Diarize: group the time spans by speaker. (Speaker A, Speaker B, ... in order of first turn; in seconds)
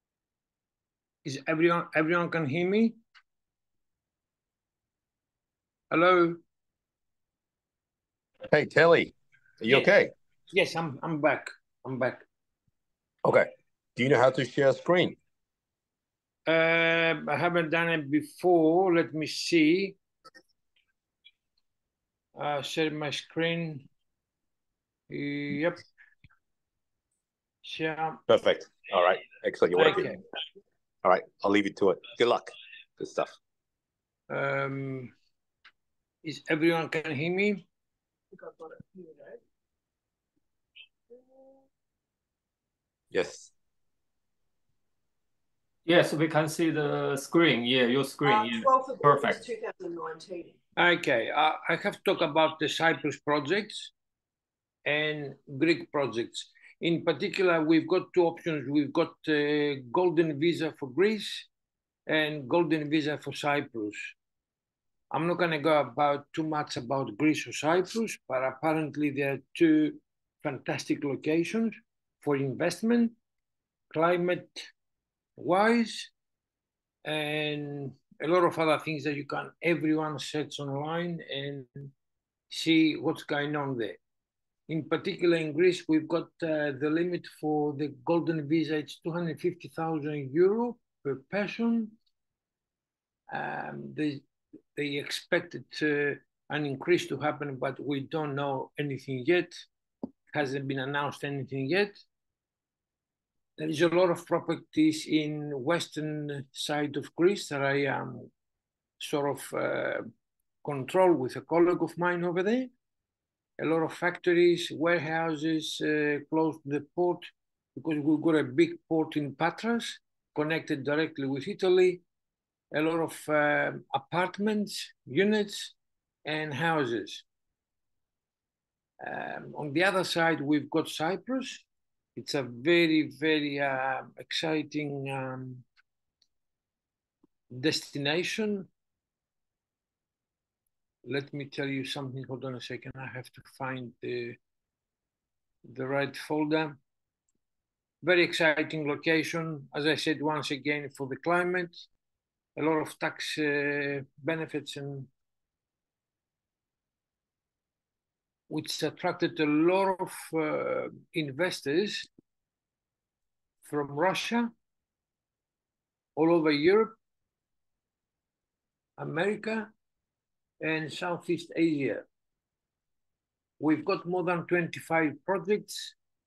Speaker A: 1.2-3.0, 5.9-6.4, 10.5-12.3, 16.5-20.0, 22.4-23.9, 25.1-25.8, 27.6-28.2, 29.7-30.2, 34.3-35.1, 36.2-37.6, 50.8-53.9, 54.8-61.5, 62.1-64.1, 65.1-73.2, 73.9-74.7, 75.4-76.1, 77.0-81.9, 82.5-84.0, 84.7-91.9, 93.3-94.2, 94.7-99.7, 100.3-102.0, 103.6-108.3, 109.0-110.1, 110.6-112.7, 113.6-122.0, 122.7-127.2, 129.0-131.6, 132.2-135.6, 137.5-138.7, 141.0-144.4, 145.6-146.8, 148.0-151.8, 152.6-155.1, 158.5-162.1, 163.6-164.5, 166.2-166.9, 169.0-169.7, 170.6-172.0, 173.6-175.9
Speaker B: 8.5-10.1, 13.2-15.2, 28.3-30.1, 31.0-33.3, 43.1-43.5
Speaker C: 38.3-39.4, 48.2-50.5
Speaker D: 45.9-49.4